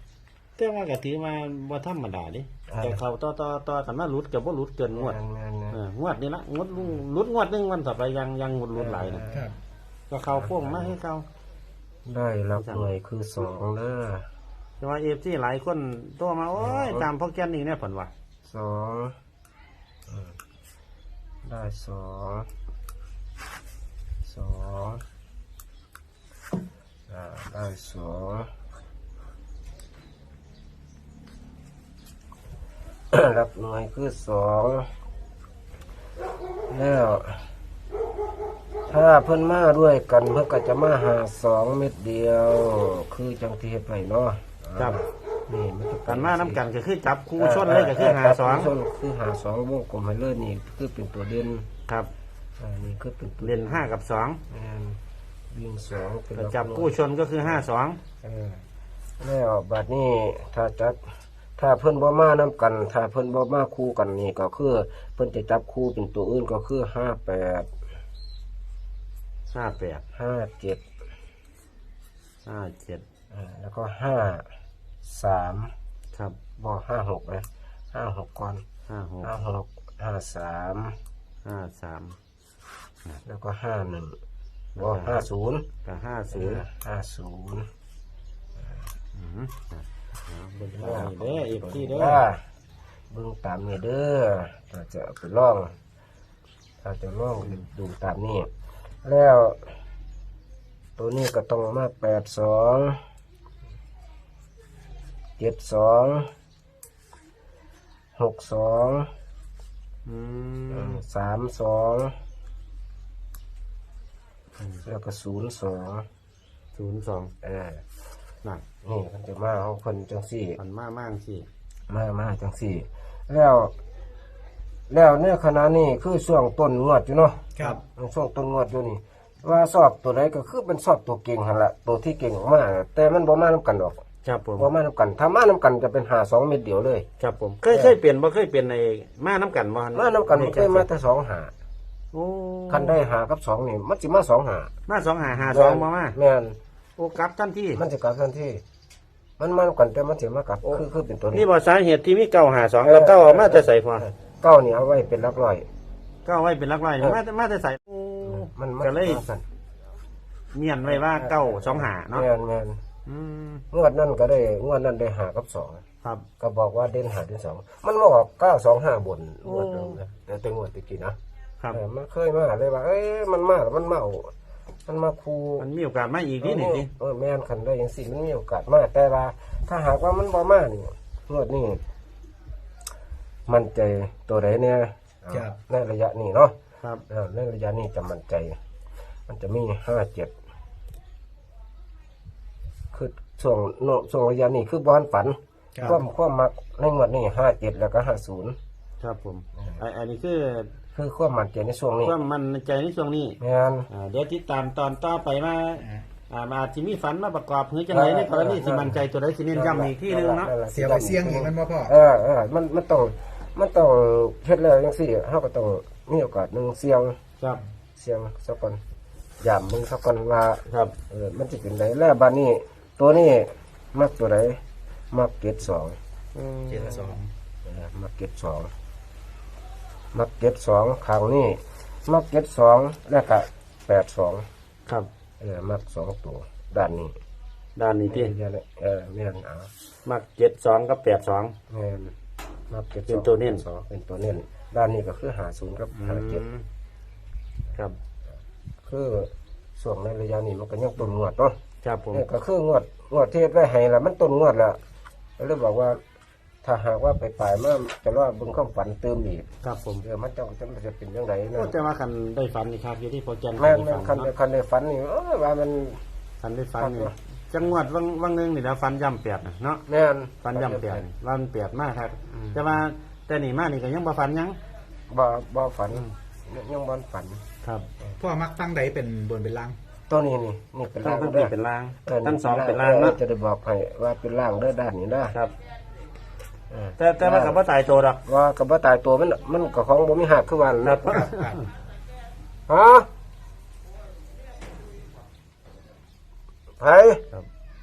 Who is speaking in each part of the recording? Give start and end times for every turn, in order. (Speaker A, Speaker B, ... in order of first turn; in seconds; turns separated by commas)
Speaker A: 0.6-5.2, Speaker B: 2.7-3.0, Speaker B: 4.9-5.8, Speaker A: 5.7-9.4, Speaker B: 8.8-9.5, Speaker C: 9.3-9.6, Speaker A: 10.1-11.3, Speaker B: 10.3-10.9, Speaker B: 12.1-14.3, Speaker A: 12.6-12.9, Speaker A: 14.8-18.1, Speaker B: 16.6-17.1, Speaker B: 18.5-19.1, Speaker B: 20.1-20.4, Speaker B: 21.4-22.5, Speaker B: 24.2-25.0, Speaker B: 27.1-28.5, Speaker B: 33.1-34.9, Speaker B: 36.7-37.5, Speaker B: 38.9-46.6, Speaker A: 46.1-48.7, Speaker B: 47.4-51.7, Speaker B: 52.6-53.9, Speaker A: 53.4-54.4, Speaker B: 54.5-55.0, Speaker B: 55.5-57.6, Speaker A: 56.4-58.0, Speaker B: 58.2-58.6, Speaker B: 59.2-67.7, Speaker A: 69.5-70.0, Speaker B: 70.1-70.8, Speaker A: 72.5-73.0, Speaker B: 73.3-74.5, Speaker B: 75.0-75.7, Speaker B: 76.6-78.6, Speaker A: 78.9-79.4, Speaker B: 79.2-81.0, Speaker A: 81.5-82.2, Speaker B: 83.2-84.2, Speaker A: 84.8-85.2, Speaker B: 84.8-85.7, Speaker A: 85.8-86.7, Speaker B: 86.3-87.7, Speaker A: 89.2-92.2, Speaker B: 90.7-92.4, Speaker B: 93.1-95.8, Speaker B: 96.8-98.5, Speaker B: 99.0-99.7, Speaker B: 101.0-103.0, Speaker B: 105.4-106.3, Speaker B: 108.2-109.1, Speaker A: 110.1-111.0, Speaker B: 110.7-112.2, Speaker B: 114.8-116.1, Speaker A: 116.8-117.3, Speaker B: 117.4-117.8, Speaker B: 118.8-120.6, Speaker A: 120.6-121.5, Speaker B: 121.9-123.7, Speaker B: 124.9-134.0, Speaker A: 134.2-134.7, Speaker B: 134.6-137.1, Speaker A: 137.2-140.9, Speaker B: 137.7-138.0, Speaker B: 139.9-141.5, Speaker A: 142.1-143.0, Speaker B: 142.7-144.7, Speaker A: 144.9-146.2, Speaker B: 145.5-146.6, Speaker A: 147.0-147.8, Speaker B: 147.8-148.6, Speaker B: 149.4-151.5, Speaker A: 150.7-154.1, Speaker B: 152.8-155.7, Speaker A: 156.2-159.2, Speaker B: 158.2-159.4, Speaker A: 160.5-162.3, Speaker B: 160.9-162.8, Speaker A: 163.1-163.6, Speaker B: 163.7-165.8, Speaker B: 166.4-171.2, Speaker A: 169.4-170.0, Speaker B: 171.7-174.3, Speaker B: 174.9-175.7, Speaker A: 175.6-176.9, Speaker B: 176.4-181.8, Speaker B: 183.5-186.5, Speaker C: 185.3-185.6, Speaker B: 187.1-188.6, Speaker B: 189.3-190.3, Speaker B: 192.9-198.6, Speaker C: 195.8-196.0, Speaker A: 199.0-200.7, Speaker B: 200.9-202.2, Speaker A: 202.0-203.4, Speaker B: 203.4-203.9, Speaker A: 203.9-210.5, Speaker C: 205.8-206.1, Speaker B: 207.9-209.0, Speaker B: 209.5-217.2, Speaker C: 210.7-211.9, Speaker B: 218.0-218.8, Speaker B: 219.4-224.6, Speaker A: 220.7-220.9, Speaker B: 225.1-226.0, Speaker A: 226.3-227.2, Speaker C: 226.7-227.3, Speaker B: 227.7-228.7, Speaker B: 230.1-234.5, Speaker B: 235.4-237.2, Speaker A: 237.8-238.3, Speaker B: 238.1-239.7, Speaker A: 240.1-241.6, Speaker B: 241.7-242.1, Speaker B: 242.7-246.4, Speaker A: 243.1-243.6, Speaker A: 245.9-246.6, Speaker B: 248.9-251.6, Speaker A: 251.8-252.2, Speaker B: 252.1-254.8, Speaker B: 255.4-256.0, Speaker B: 256.6-259.5, Speaker A: 259.6-260.0, Speaker B: 260.0-261.8, Speaker A: 261.6-264.3, Speaker B: 263.6-266.0, Speaker A: 266.4-269.8, Speaker B: 266.8-267.1, Speaker B: 269.9-271.1, Speaker A: 270.4-274.6, Speaker B: 272.3-272.6, Speaker B: 275.1-277.4, Speaker C: 278.2-279.8, Speaker B: 280.1-281.5, Speaker A: 281.0-283.2, Speaker B: 282.1-285.4, Speaker B: 286.7-287.6, Speaker A: 287.0-288.2, Speaker B: 288.2-291.3, Speaker A: 290.8-291.6, Speaker C: 291.2-291.5, Speaker B: 292.7-293.1, Speaker B: 296.8-297.2